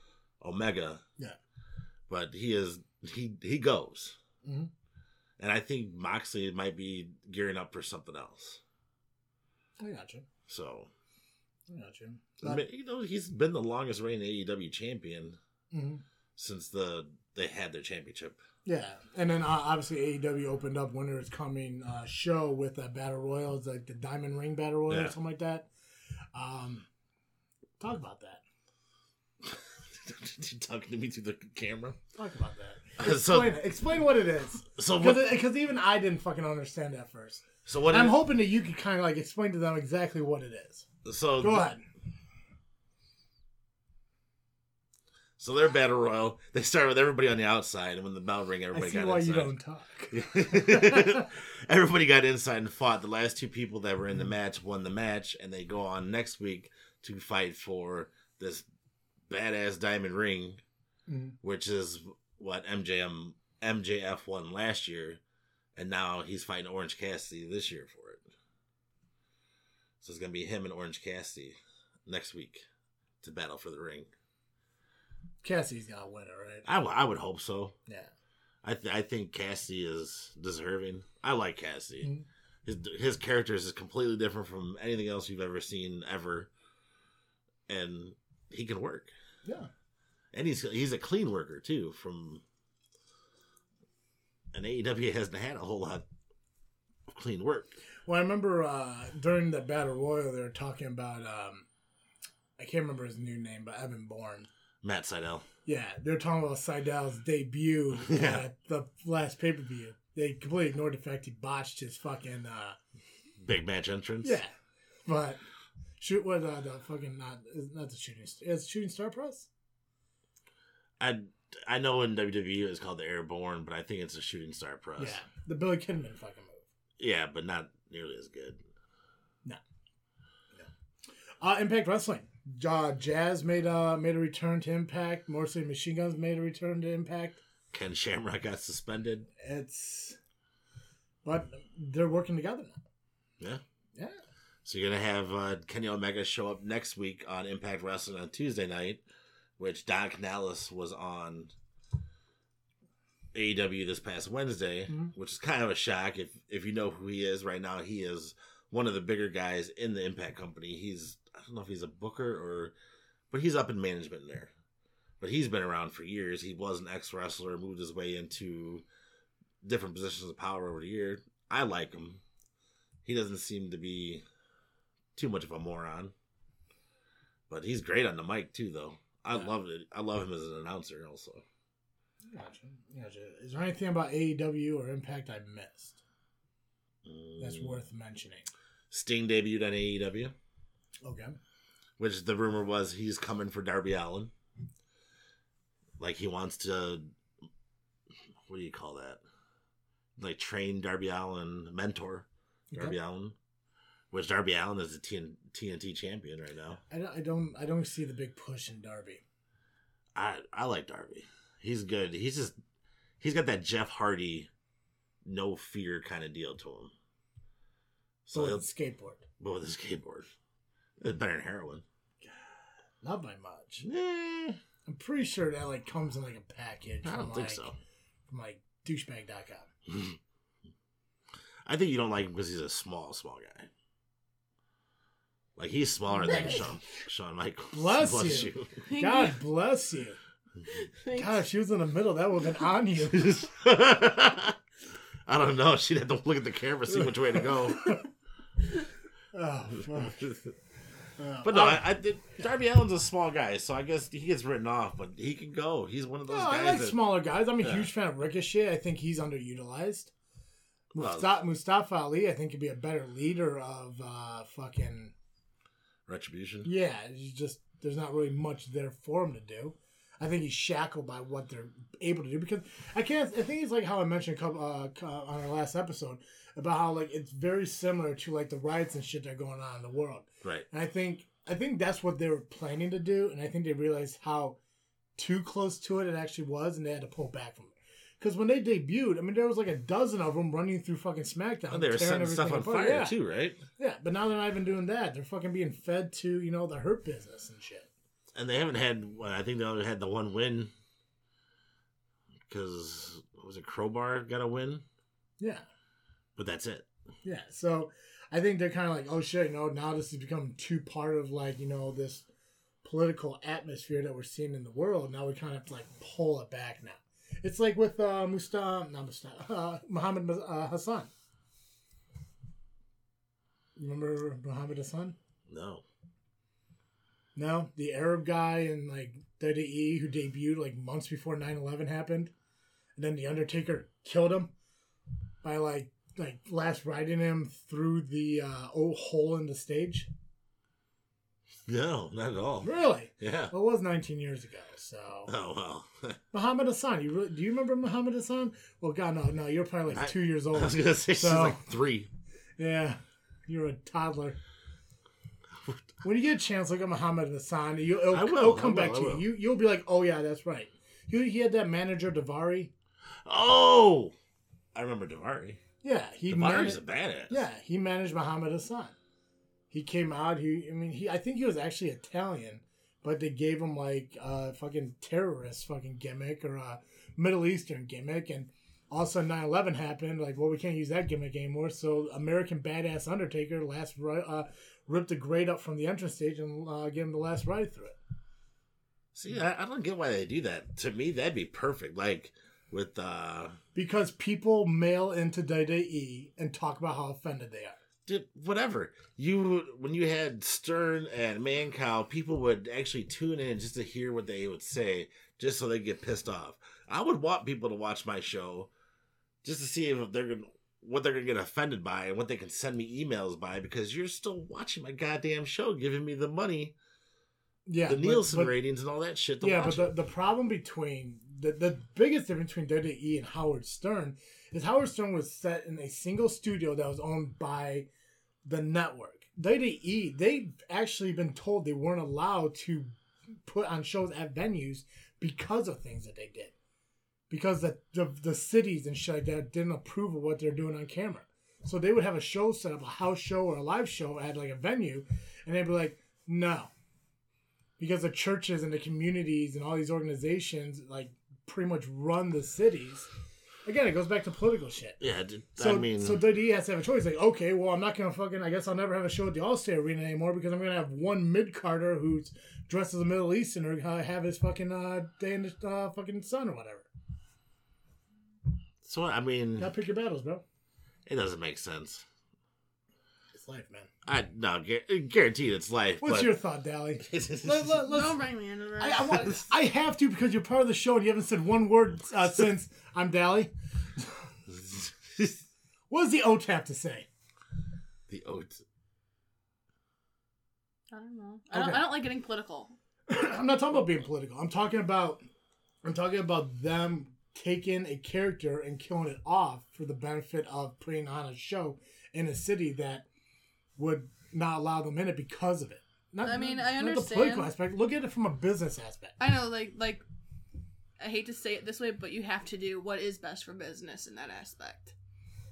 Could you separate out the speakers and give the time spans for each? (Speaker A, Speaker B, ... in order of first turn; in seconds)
Speaker A: 0.4-1.0, 2.1-4.2, 5.4-8.6, 10.5-10.9, 12.4-15.4, 16.4-18.4, 24.9-25.1, 29.4-32.0, 33.0-33.6, 34.7-35.3, 37.6-38.2, 41.0-41.7, 45.4-49.5, 50.1-58.6, 59.3-60.6, 61.4-65.2, 65.8-68.3, 70.0-72.7, 73.2-74.1, 76.7-77.8, 78.6-82.1, 82.7-86.5, 87.7-89.1, 90.3-92.4, 94.5-96.1, 97.1-97.8, 104.8-105.5, 108.0-108.5, 113.4-114.4, 121.0-125.2, 127.0-128.6, 137.7-139.3, 144.7-149.0, 149.6-151.5, 153.3-162.7, 163.3-164.5, 165.2-168.8, 169.6-172.2, 173.0-174.2, 175.2-176.1, 177.5-181.4, 187.1-187.8, 188.9-190.3, 192.0-194.3, 196.0-197.1, 198.5-199.2, 200.2-203.3, 204.1-206.8, 210.2-212.6, 213.2-214.5, 215.2-216.9, 218.2-218.7, 219.4-220.3, 221.0-221.8, 223.8-224.6, 227.0-227.8, 229.9-230.2, 231.7-233.7, 235.6-238.8, 243.1-244.6, 245.3-248.0, 249.9-250.4, 251.4-257.0, 257.6-257.9, 261.0-261.3, 266.1-266.7, 291.7-293.6, 298.3-300.7, 302.5-304.8, 306.4-306.9, 325.5-325.8, 341.7-343.5, 345.3-346.2, 349.9-352.1, 358.1-359.3, 363.2-364.1, 364.7-365.6, 366.3-367.4, 389.1-393.6, 398.1-408.7, 409.4-416.8, 417.9-419.9, 455.0-456.2, 468.8-469.7, 471.1-472.1, 474.1-476.4, 477.0-477.9, 484.5-485.4, 488.1-488.6
Speaker B: 4.4-4.7, 9.8-10.2, 11.7-12.6, 15.7-16.0, 18.6-25.7, 26.3-26.9, 27.8-28.4, 32.1-40.9, 41.4-41.8, 48.7-51.2, 61.1-61.4, 75.4-76.7, 98.1-101.7, 102.6-104.5, 105.7-112.8, 114.2-114.5, 115.1-115.4, 116.0-119.5, 125.0-126.7, 131.4-137.4, 139.4-140.2, 141.2-142.8, 182.3-186.0, 187.4-188.5, 191.0-191.4, 202.7-203.0, 206.9-209.2, 218.3-219.2, 223.0-223.8, 224.9-227.6, 228.3-229.7, 236.1-236.7, 237.7-240.2, 241.1-243.4, 249.3-250.4, 251.2-251.8, 256.3-260.1, 260.9-265.1, 266.6-284.6, 285.2-293.1, 293.8-297.9, 305.4-305.6, 307.2-312.3, 312.8-321.1, 323.8-325.2, 327.4-332.3, 333.0-334.5, 335.4-340.1, 342.6-345.3, 346.3-351.6, 352.6-354.4, 356.0-362.7, 365.8-368.9, 369.7-388.0, 393.8-397.8, 417.7-418.6, 419.4-427.9, 428.5-432.9, 433.5-436.5, 437.3-446.7, 447.8-453.1, 453.6-455.0, 455.6-466.9, 469.6-470.4, 473.3-473.9, 476.0-478.2, 478.8-484.1, 485.9-487.1, 491.5-491.9, 493.1-495.2, 495.8-503.1, 503.8-509.2
Speaker C: 238.8-239.4, 240.7-241.4, 477.9-479.4, 490.9-492.7, 506.2-507.5, 509.2-510.0, 511.0-514.9